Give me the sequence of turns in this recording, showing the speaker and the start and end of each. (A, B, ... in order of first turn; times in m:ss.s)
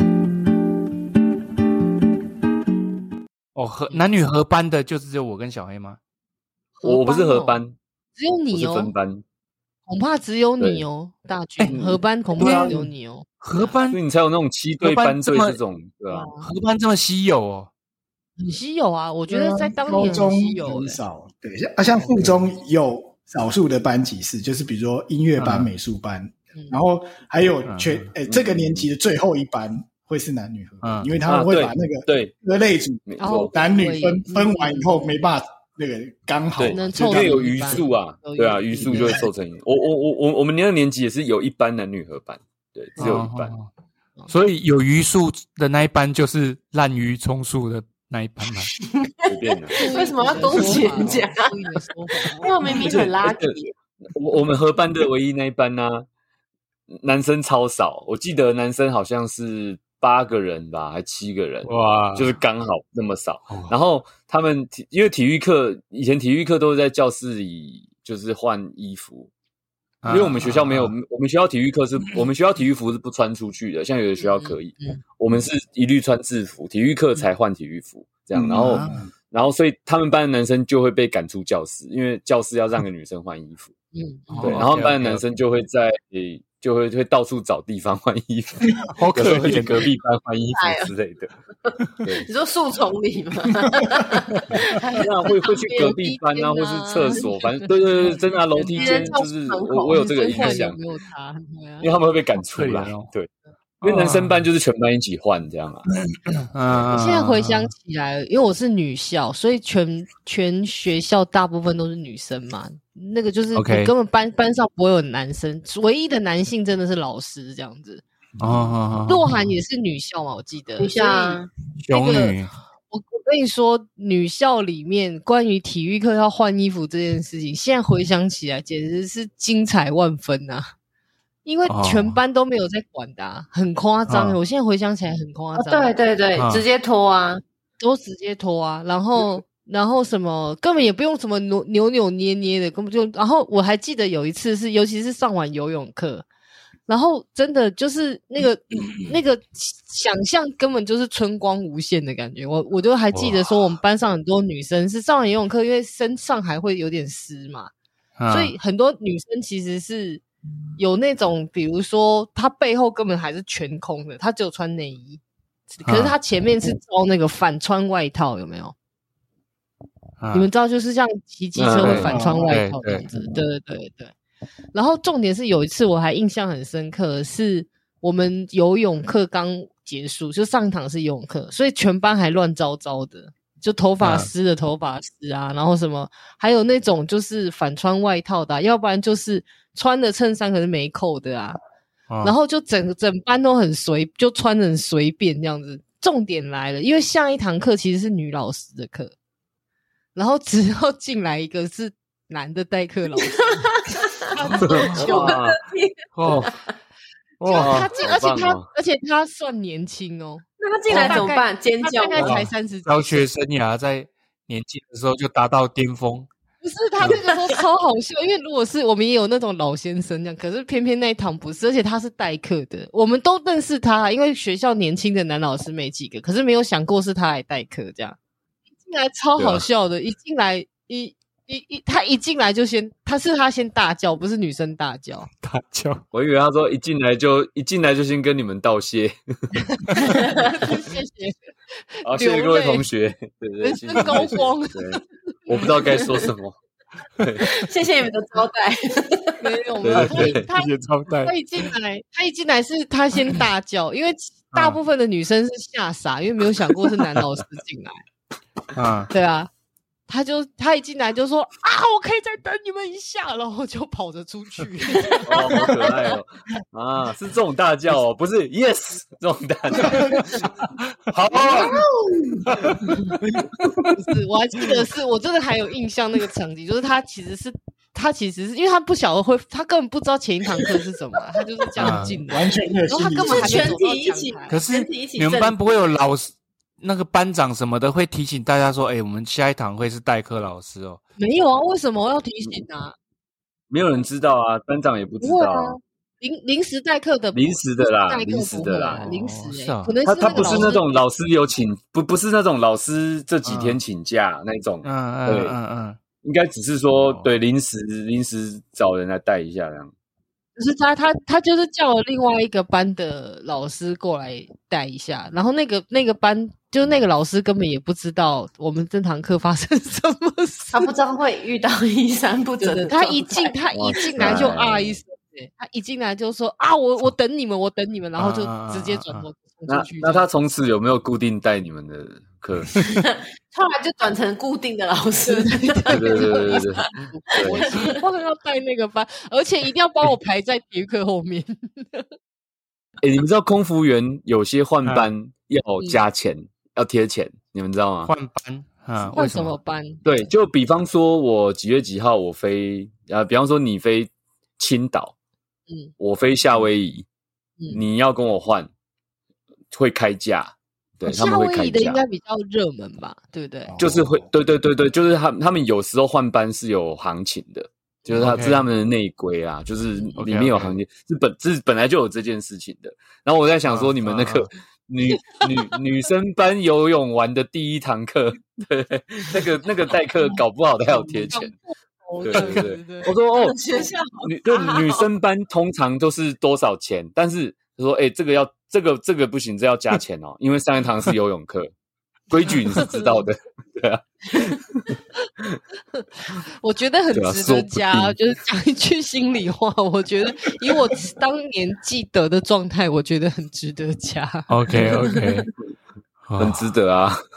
0:03.5-0:06.0 A
0:06.8-0:07.6 B
0:06.8-0:07.8 C
0:08.1-0:08.9 B
0:08.5-0:09.2 C
0:09.9-0:13.8 B
0:10.6-0:10.8 C
0:11.6-0:12.9 A
0:11.7-0:12.8 C
0:13.4-0:14.0 A
0:13.9-0:16.3 C
0:14.8-0:15.6 A
0:16.1-0:16.4 B
0:16.4-0:17.7 A
0:18.4-0:21.0 B
0:19.3-0:37.9 D
0:20.0-0:20.2 A
0:22.0-0:22.5 A
0:25.4-0:25.7 A
0:27.6-0:28.1 A
0:28.3-0:28.9 C
0:30.8-0:31.1 A
0:31.2-0:32.3 C
0:33.1-0:33.5 C
0:33.2-0:35.1 B
0:36.6-0:43.5 C
0:36.7-0:39.2 B
0:43.0-0:43.7 A
0:44.3-0:48.7 A
0:48.8-0:51.8 E
0:49.3-0:49.8 C
0:49.8-0:52.5 B
0:50.5-0:50.9 C
0:52.4-0:53.7 E
0:52.7-0:53.6 C
0:54.1-0:56.0 C
0:56.9-1:09.3 C
1:01.6-1:02.4 A
1:10.0-1:10.9 A
1:10.1-1:23.7 C
1:14.2-1:15.0 B
1:18.4-1:19.1 D
1:18.6-1:19.0 A
1:23.9-1:24.6 B
1:24.3-1:25.2 A
1:24.4-1:31.3 C
1:28.8-1:29.9 A
1:30.5-1:30.9 E
1:31.6-1:36.0 E
1:35.0-1:40.8 C
1:35.8-1:39.2 B
1:38.7-1:40.6 E
1:39.9-1:41.9 B
1:41.8-1:43.3 C
1:42.5-1:43.1 A
1:43.8-1:45.9 C
1:43.8-1:44.4 A
1:46.4-1:47.7 A
1:46.7-1:47.0 C
1:46.9-1:58.0 B
1:53.5-1:53.9 A
1:58.4-1:59.4 A
1:59.0-2:02.4 B
2:00.8-2:01.5 E
2:01.8-2:02.5 A
2:02.9-2:10.7 B
2:11.4-2:15.9 B
2:11.7-2:12.2 A
2:14.1-2:14.4 A
2:15.6-2:17.4 E
2:16.4-2:16.6 A
2:17.8-2:26.2 B
2:26.9-2:37.7 B
2:33.1-2:33.4 A
2:38.2-2:38.5 A
2:38.3-2:40.2 B
2:40.8-2:45.2 B
2:45.8-2:48.7 B
2:45.8-2:46.1 A
2:50.2-2:50.5 A
2:50.3-2:54.1 B
2:51.5-2:52.1 C
2:51.8-2:53.0 A
2:52.0-2:52.6 D
2:54.7-3:11.6 B
3:04.0-3:04.3 A
3:12.1-3:12.3 A
3:12.2-3:19.1 B
3:20.1-3:23.6 B
3:23.2-3:26.7 E
3:24.3-3:25.4 B
3:24.6-3:25.6 C
3:26.1-3:26.5 A
3:27.4-3:27.9 A
3:27.4-3:33.3 B
3:27.5-3:28.7 C
3:30.6-3:32.4 E
3:32.2-3:36.3 A
3:36.6-3:48.2 B
3:37.1-3:37.6 E
3:48.8-3:55.3 B
3:49.4-3:49.6 C
3:55.4-3:56.0 A
3:56.1-3:59.5 C
3:59.7-4:01.5 B
4:00.0-4:00.6 E
4:02.0-4:06.6 C
4:02.1-4:02.8 B
4:03.6-4:06.0 B
4:07.2-4:07.4 C
4:07.4-4:09.4 E
4:09.4-4:10.7 B
4:09.8-4:10.5 C
4:09.9-4:11.3 A
4:11.2-4:18.0 B
4:18.7-4:19.1 A
4:19.1-4:19.5 B
4:20.1-4:25.8 B
4:25.2-4:30.4 C
4:29.8-4:30.2 D
4:31.1-4:31.8 C
4:31.5-4:32.7 D
4:33.3-4:33.7 D
4:34.0-4:44.6 B
4:41.8-4:42.2 A
4:41.9-4:43.7 D
4:43.2-4:45.6 E
4:44.5-4:51.0 A
4:51.2-4:52.9 B
4:53.7-4:55.8 C
4:55.2-5:01.0 B
4:57.3-4:59.0 C
4:58.9-5:00.8 A
5:00.0-5:05.6 C
5:03.4-5:03.8 A
5:04.8-5:06.0 A
5:06.2-5:09.9 C
5:06.9-5:07.3 A
5:10.6-5:20.9 B
5:20.7-5:23.5 E
5:22.6-5:30.3 B
5:23.7-5:25.0 C
5:28.2-5:29.3 A
5:29.7-5:32.8 C
5:32.8-5:38.0 E
5:35.2-5:42.0 B
5:35.9-5:36.8 C
5:43.0-5:48.1 C
5:44.8-5:45.1 A
5:48.0-5:49.6 A
5:49.0-5:50.0 B
5:50.0-5:55.1 C
5:56.0-5:57.0 C
5:57.7-5:58.7 C
5:59.7-6:02.0 C
6:01.0-6:03.8 B
6:03.6-6:04.2 D
6:03.8-6:21.5 C
6:08.1-6:08.7 A
6:09.9-6:10.2 B
6:10.1-6:10.8 A
6:13.6-6:14.5 A
6:15.1-6:15.5 E
6:21.3-6:23.1 B
6:22.2-6:23.6 C
6:22.3-6:22.6 A
6:23.3-6:25.1 E
6:24.2-6:31.7 C
6:32.3-6:34.9 C
6:32.7-6:33.2 B
6:36.6-6:45.2 B
6:37.1-6:38.1 C
6:44.5-6:45.5 A
6:46.3-6:46.7 A
6:46.4-6:47.2 C